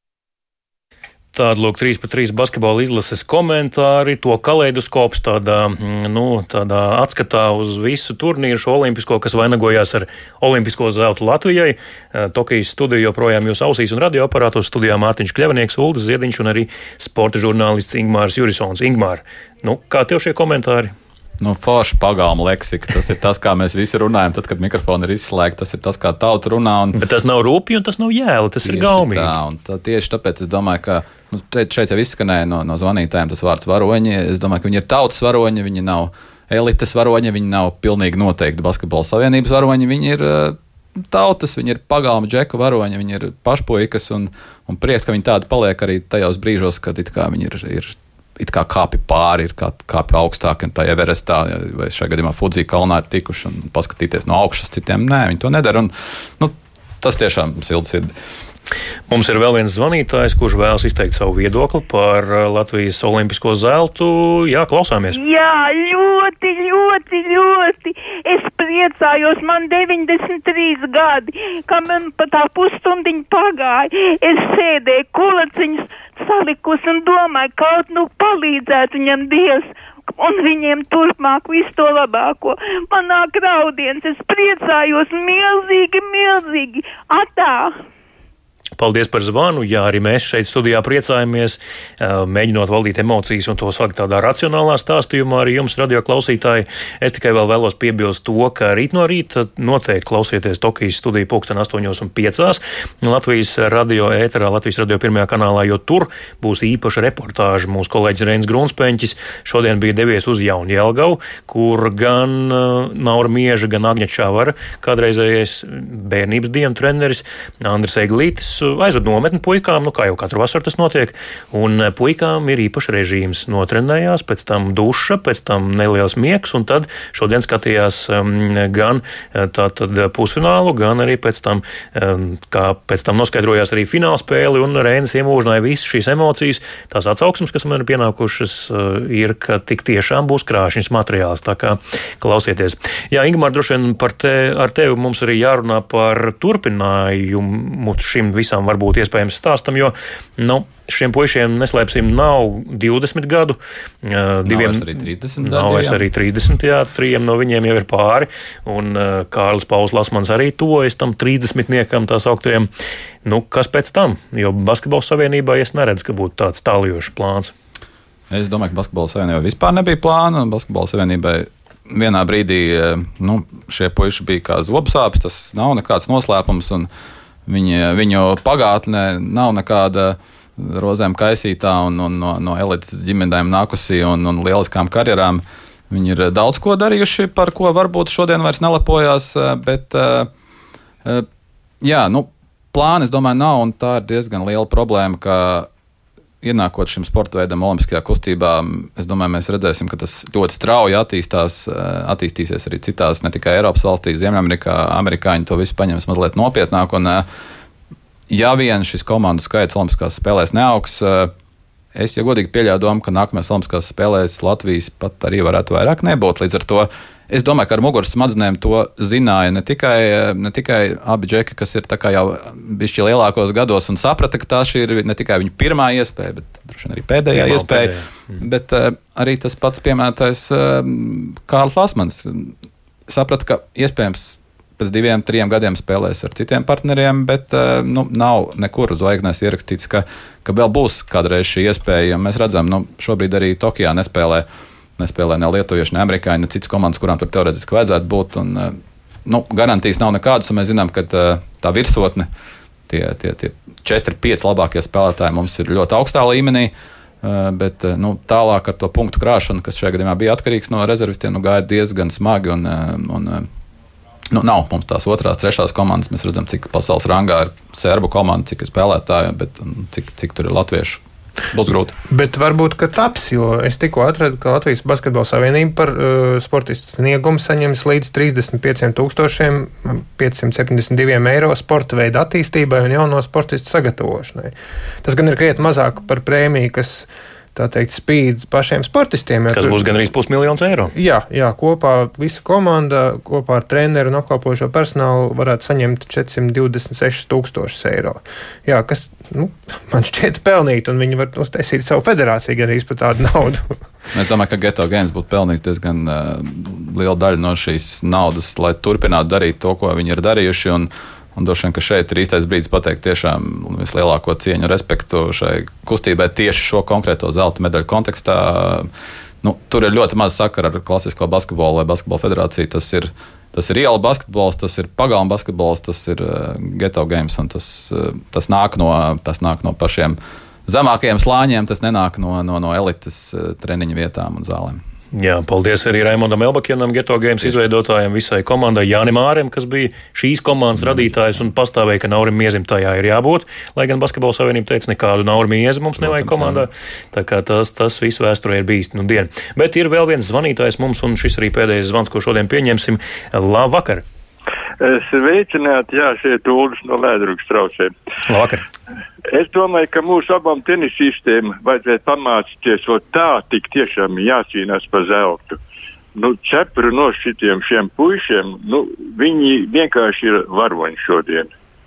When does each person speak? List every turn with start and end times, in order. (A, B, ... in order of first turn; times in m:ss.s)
0:01.3-0:20.9 A
0:21.4-0:27.0 B
0:26.9-0:29.3 A
0:28.6-0:58.1 B
0:59.1-1:05.2 A
1:05.1-1:27.7 C
1:28.8-2:42.7 A
2:34.4-2:36.0 B
2:43.2-2:47.5 A
2:48.3-2:56.9 B
2:57.5-3:10.3 B
3:11.8-3:15.7 B
3:16.4-3:27.2 B
3:28.3-3:31.3 B
3:31.9-3:52.5 B
3:47.3-3:48.4 A
3:53.1-4:04.4 B
4:05.0-4:12.3 B
4:12.9-4:23.5 B
4:24.3-4:31.9 B
4:32.1-4:49.8 D
4:49.5-4:50.9 A
4:50.9-5:03.8 D
5:04.1-5:18.9 B
5:19.4-5:34.8 B
5:35.1-5:54.0 A
5:40.8-5:41.5 B
5:46.0-5:46.6 B
5:54.8-5:57.9 E
5:58.3-5:58.6 A
5:59.3-6:05.6 E
6:06.2-6:11.5 E